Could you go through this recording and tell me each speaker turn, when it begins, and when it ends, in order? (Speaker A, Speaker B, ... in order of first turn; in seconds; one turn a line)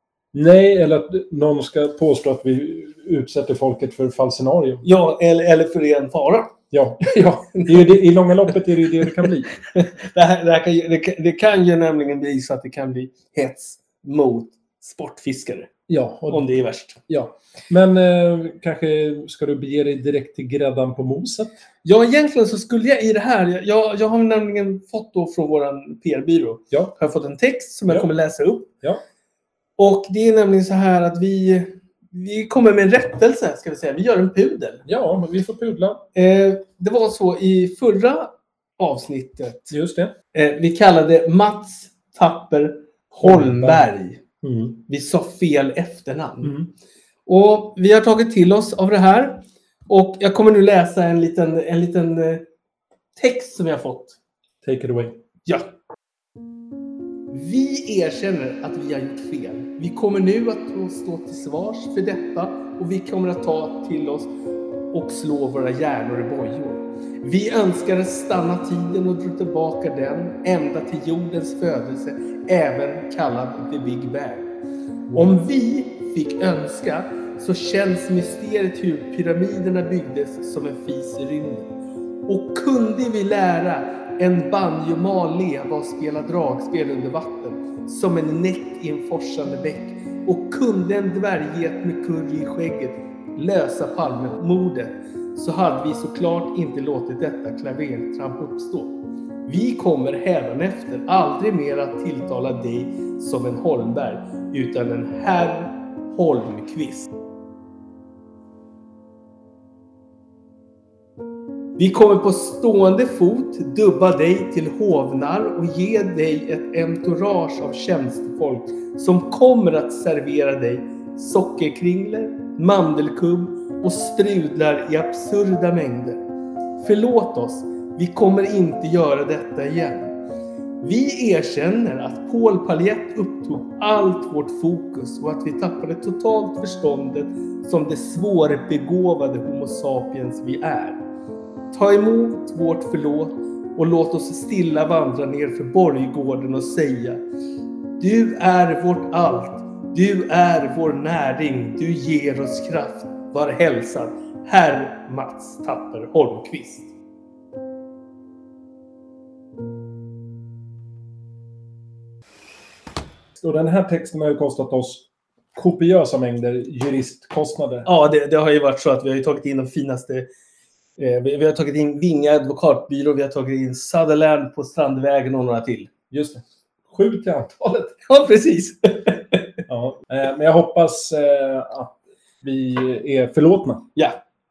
Speaker A: 0.3-4.8
Speaker B: 4.8-6.5
Speaker A: 6.7-9.5
Speaker B: 7.5-15.7
Speaker A: 15.9-16.4
Speaker B: 16.3-17.0
Speaker A: 17.1-21.6
Speaker B: 21.8-28.7
Speaker B: 29.8-34.8
Speaker A: 34.9-36.0
Speaker B: 36.1-39.7
Speaker A: 39.7-40.1
Speaker B: 40.3-44.2
Speaker A: 43.2-43.9
Speaker A: 44.4-44.8
Speaker B: 44.9-46.6
Speaker A: 46.4-46.7
Speaker B: 47.3-52.5
Speaker B: 53.2-54.2
Speaker A: 54.6-55.2
Speaker B: 57.3-64.3
Speaker B: 64.9-74.5
Speaker A: 75.1-75.4
Speaker B: 75.1-81.7
Speaker B: 82.3-99.0
Speaker B: 99.5-107.1
Speaker B: 111.8-126.2
Speaker B: 126.8-130.1
Speaker B: 130.8-141.0
Speaker B: 141.7-147.2
Speaker B: 148.0-156.9
Speaker A: 163.4-167.9
Speaker B: 167.9-170.3
Speaker B: 171.0-175.9
Speaker A: 176.1-177.9
Speaker B: 178.1-179.6
Speaker A: 179.7-183.9